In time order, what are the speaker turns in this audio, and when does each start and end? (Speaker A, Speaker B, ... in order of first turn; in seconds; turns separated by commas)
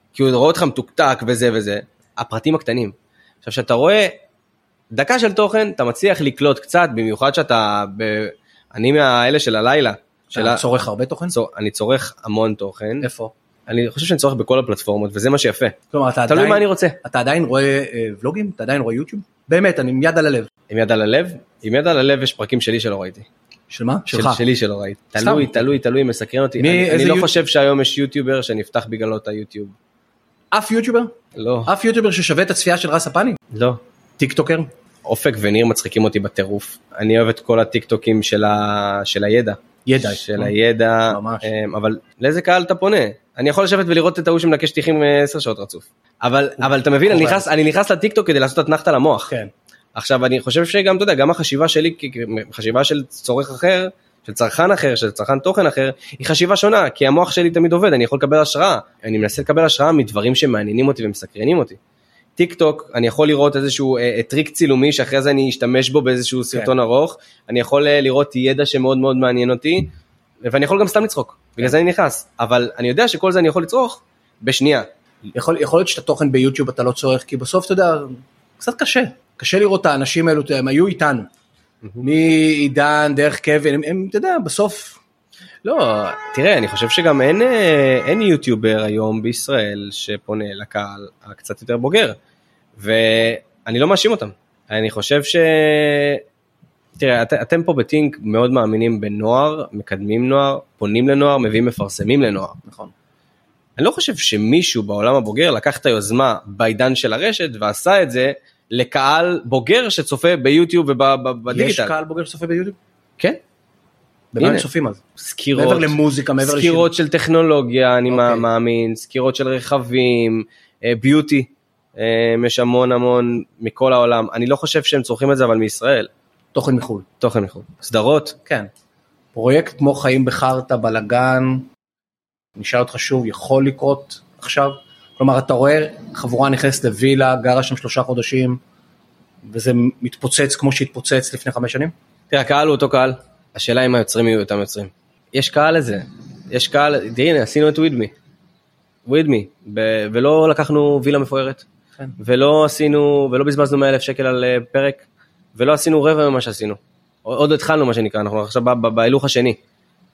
Speaker A: 0.1-4.2, Speaker A: 4.9-10.6, Speaker B: 10.3-11.3, Speaker A: 11.3-13.1, Speaker B: 13.0-13.3, Speaker A: 13.7-15.8, Speaker B: 15.9-20.5, Speaker A: 16.3-17.0, Speaker A: 20.7-23.3, Speaker B: 23.7-24.4, Speaker A: 24.1-29.7, Speaker B: 25.2-25.6, Speaker B: 26.6-27.4, Speaker B: 30.5-31.1, Speaker A: 31.3-31.7, Speaker B: 31.6-33.4, Speaker A: 33.5-33.8, Speaker B: 34.2-34.7, Speaker A: 35.0-49.3, Speaker B: 39.9-40.5, Speaker B: 41.1-41.5, Speaker B: 46.6-47.5, Speaker A: 49.9-61.8, Speaker A: 62.4-74.9, Speaker B: 75.3-81.3, Speaker B: 82.0-85.0, Speaker A: 85.6-92.2, Speaker A: 92.8-96.2, Speaker A: 97.0-102.6, Speaker B: 102.6-102.9, Speaker A: 103.8-111.9, Speaker B: 111.5-112.8, Speaker B: 114.3-115.0, Speaker A: 114.4-126.1, Speaker B: 115.5-116.9, Speaker B: 118.1-118.5, Speaker B: 126.5-127.0, Speaker A: 127.2-128.4, Speaker B: 129.3-131.7, Speaker B: 132.6-138.6, Speaker B: 139.4-141.9, Speaker A: 142.3-148.1, Speaker A: 149.0-151.6, Speaker A: 152.2-159.6